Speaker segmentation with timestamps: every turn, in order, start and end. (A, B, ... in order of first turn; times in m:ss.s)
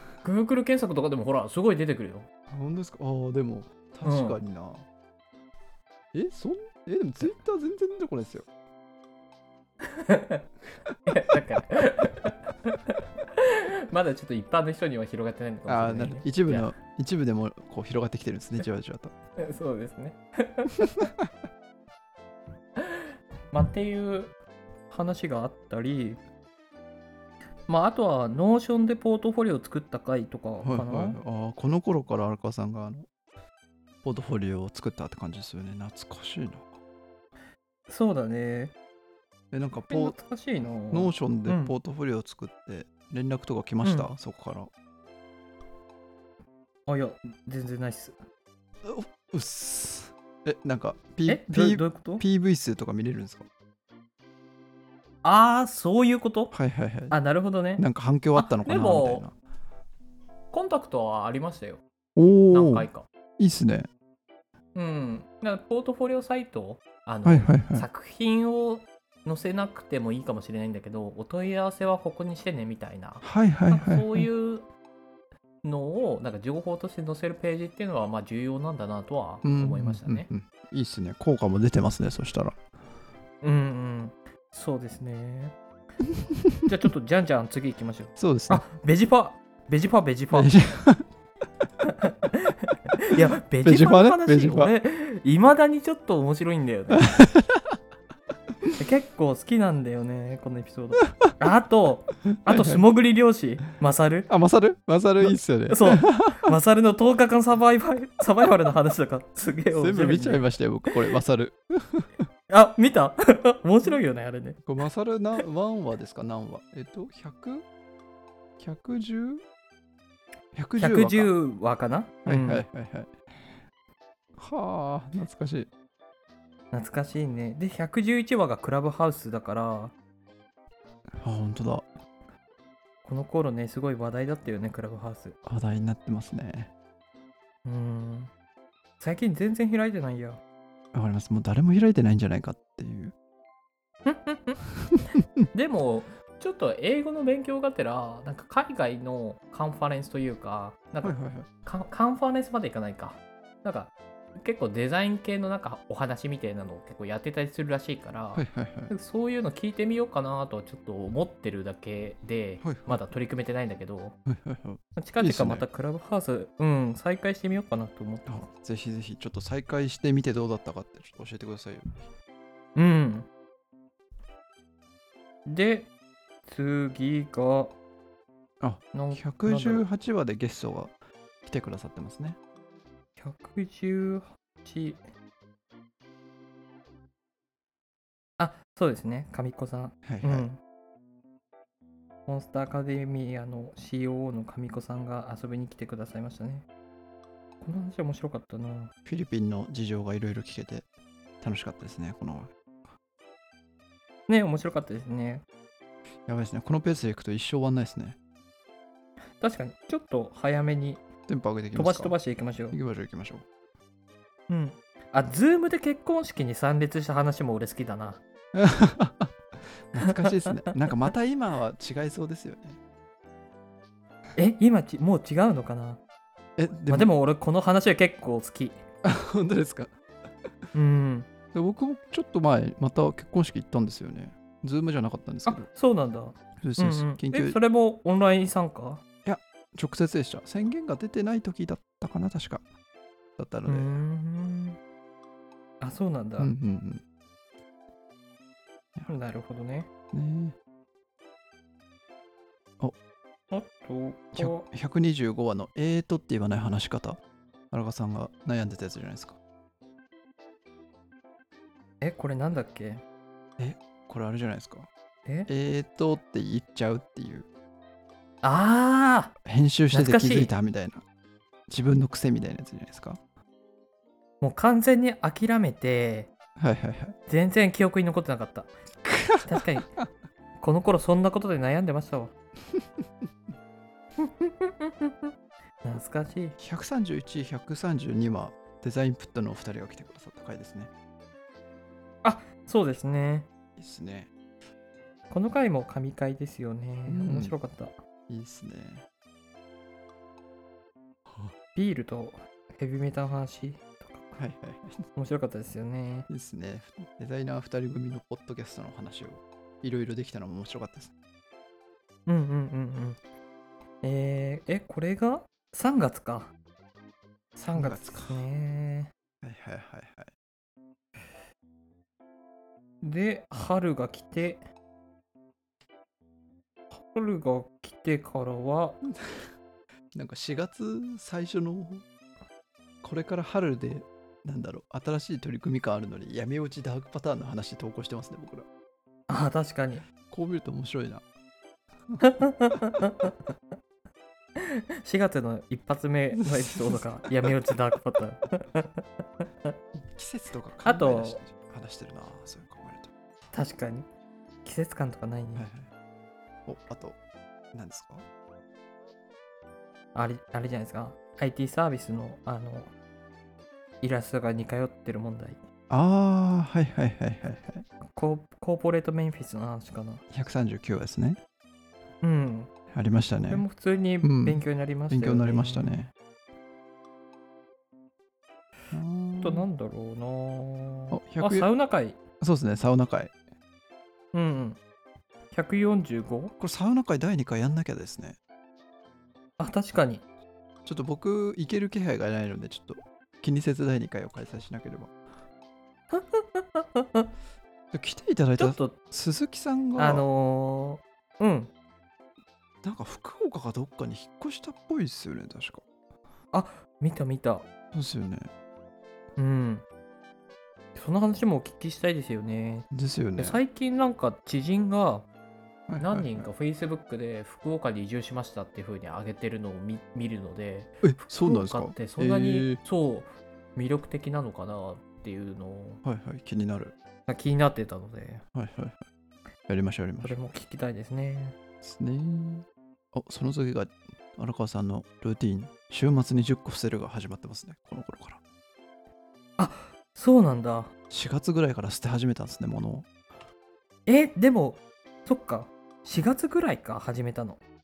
0:00.2-0:02.3 A
0:02.5-0:04.8 B
0:04.0-0:04.4 A
0:06.1-0:08.5 B
0:09.9-0:10.4 A
0:11.0-0:16.7 A
0:15.7-0:19.1 B
0:19.4-0:20.9 A
0:22.8-0:24.3 A
0:24.9-0:26.2 A
0:27.7-0:31.2 A
0:30.6-0:33.0 B
0:34.0-0:36.7 B
0:37.9-0:38.7 A
0:39.5-0:40.2 B
0:39.9-0:41.7 A
0:40.9-0:44.7 B
0:43.8-0:44.1 A
0:46.9-0:48.2 A
0:48.8-0:53.4 B
0:51.2-0:52.2 A
0:55.2-0:56.5 A
0:56.5-0:57.2 B
0:57.1-0:59.2 A
0:57.7-0:59.3 B
1:00.5-1:01.8 A
1:02.2-1:03.9 B
1:02.5-1:03.0 A
1:04.7-1:14.7 A
1:07.2-1:07.9 B
1:13.2-1:14.3 B
1:15.6-1:20.3 A
1:19.4-1:22.6 B
1:23.4-1:25.5 A
1:26.6-1:30.5 A
1:28.2-1:28.6 B
1:30.3-1:31.0 B
1:31.8-1:37.0 A
1:33.2-1:34.7 B
1:37.0-1:37.6 B
1:38.8-1:44.3 A
1:42.4-1:42.8 B
1:44.3-1:46.6 B
1:45.2-1:50.4 A
1:49.7-1:52.2 B
1:52.5-1:54.6 A
1:54.6-1:57.6 B
1:58.6-1:59.4 B
2:00.5-2:01.3 B
2:00.8-2:02.6 A
2:02.2-2:03.1 B
2:04.4-2:05.7 B
2:06.7-2:09.9 A
2:11.2-2:11.9 B
2:13.0-2:15.4 A
2:15.4-2:16.7 B
2:17.6-2:18.3 A
2:19.0-2:20.4 A
2:20.9-2:23.1 B
2:24.0-2:24.6 A
2:25.5-2:44.1 A
2:31.0-2:31.5 B
2:38.3-2:38.9 B
2:42.6-2:43.0 B
2:44.3-2:45.6 B
2:45.0-2:48.5 A
2:48.2-2:52.1 B
2:52.8-2:53.3 A
2:55.4-2:55.9 A
2:56.5-2:57.7 A
2:58.6-3:00.9 B
2:58.9-2:59.8 A
3:01.4-3:02.4 B
3:03.2-3:05.0 A
3:08.4-3:10.6 A
3:10.0-3:10.5 B
3:12.3-3:16.6 A
3:17.6-3:18.9 A
3:19.0-3:20.9 B
3:21.4-3:22.5 B
3:24.3-3:25.4 A
3:26.3-3:28.2 B
3:29.4-3:31.0 A
3:31.3-3:32.2 B
3:31.7-3:32.8 A
3:32.7-3:33.4 B
3:34.5-3:38.2 A
3:38.5-3:39.3 B
3:39.9-3:42.8 B
3:40.0-3:40.3 A
3:44.4-3:46.0 A
3:46.6-3:47.1 B
3:46.9-3:48.8 A
3:49.0-3:49.9 B
3:50.7-3:51.3 A
3:51.5-3:55.7 B
3:55.4-3:59.0 A
3:56.6-3:57.6 B
3:59.2-4:02.6 B
4:03.4-4:03.9 B
4:03.7-4:04.8 A
4:05.8-4:06.5 A
4:06.4-4:07.0 B
4:09.0-4:09.9 A
4:10.1-4:10.6 B
4:13.5-4:14.6 A
4:14.3-4:19.4 B
4:22.0-4:23.0 A
4:23.6-4:24.9 B
4:25.5-4:27.5 B
4:28.4-4:29.3 A
4:29.4-4:31.0 B
4:29.9-4:30.5 A
4:31.7-4:33.2 B
4:34.4-4:36.3 A
4:36.6-4:37.1 B
4:37.3-4:38.7 A
4:39.0-4:39.6 B
4:39.4-4:39.9 A
4:40.6-4:42.3 A
4:44.2-4:45.3 A
4:45.8-4:46.6 A
4:46.6-4:50.9 B
4:52.2-4:53.5 A
4:53.8-4:54.3 B
4:55.3-4:57.9 A
4:57.1-4:57.5 B
4:58.3-4:59.0 B
5:01.3-5:01.5 B
5:01.7-5:04.4 A
5:04.4-5:05.0 B
5:05.2-5:06.3 A
5:06.3-5:11.1 B
5:12.2-5:13.2 A
5:14.0-5:16.5 A
5:17.6-5:19.1 A
5:17.7-5:18.4 B
5:19.4-5:20.3 B
5:23.0-5:24.6 A
5:26.9-5:29.0 A
5:30.1-5:32.0 B
5:33.0-5:38.6 B
5:39.3-5:40.0 A
5:40.3-5:41.2 B
5:42.2-5:43.3 A
5:45.0-5:49.0 A
5:46.3-5:47.5 B
5:50.0-5:53.1 B
5:50.8-5:51.4 A
5:53.5-5:54.1 A
5:54.6-5:55.6 A
5:55.5-5:55.9 B
5:56.7-5:57.2 B
5:57.7-5:58.2 B
6:00.1-6:02.9 A
6:04.0-6:05.6 A
6:05.9-6:07.8 B
6:08.0-6:10.2 A
6:10.3-6:11.4 B
6:12.2-6:12.7 A
6:12.9-6:13.6 B
6:13.4-6:16.0 A
6:14.2-6:16.1 B
6:18.9-6:19.7 B
6:19.4-6:22.2 A
6:21.1-6:21.7 B
6:22.4-6:23.3 B
6:24.3-6:24.8 A
6:25.5-6:26.5 A
6:26.6-6:28.4 B
6:29.6-6:30.2 A
6:30.8-6:35.1 B
6:36.1-6:37.3 A
6:37.9-6:40.2 B
6:38.6-6:39.0 A
6:40.0-6:41.7 A
6:42.8-6:45.8 B
6:46.5-6:47.6 A
6:47.9-6:48.5 B
6:49.4-6:49.8 A
6:50.9-6:52.8 A
6:52.9-6:53.6 B
6:53.4-6:55.3 A
6:55.9-6:56.5 B
6:56.0-7:06.0 A
7:01.0-7:02.8 B
7:06.0-7:06.9 B
7:07.3-7:08.4 A
7:08.5-7:09.0 B
7:09.7-7:10.4 B
7:10.2-7:11.6 A
7:11.8-7:18.4 B
7:19.6-7:20.9 A
7:21.1-7:23.1 B
7:24.0-7:27.6 A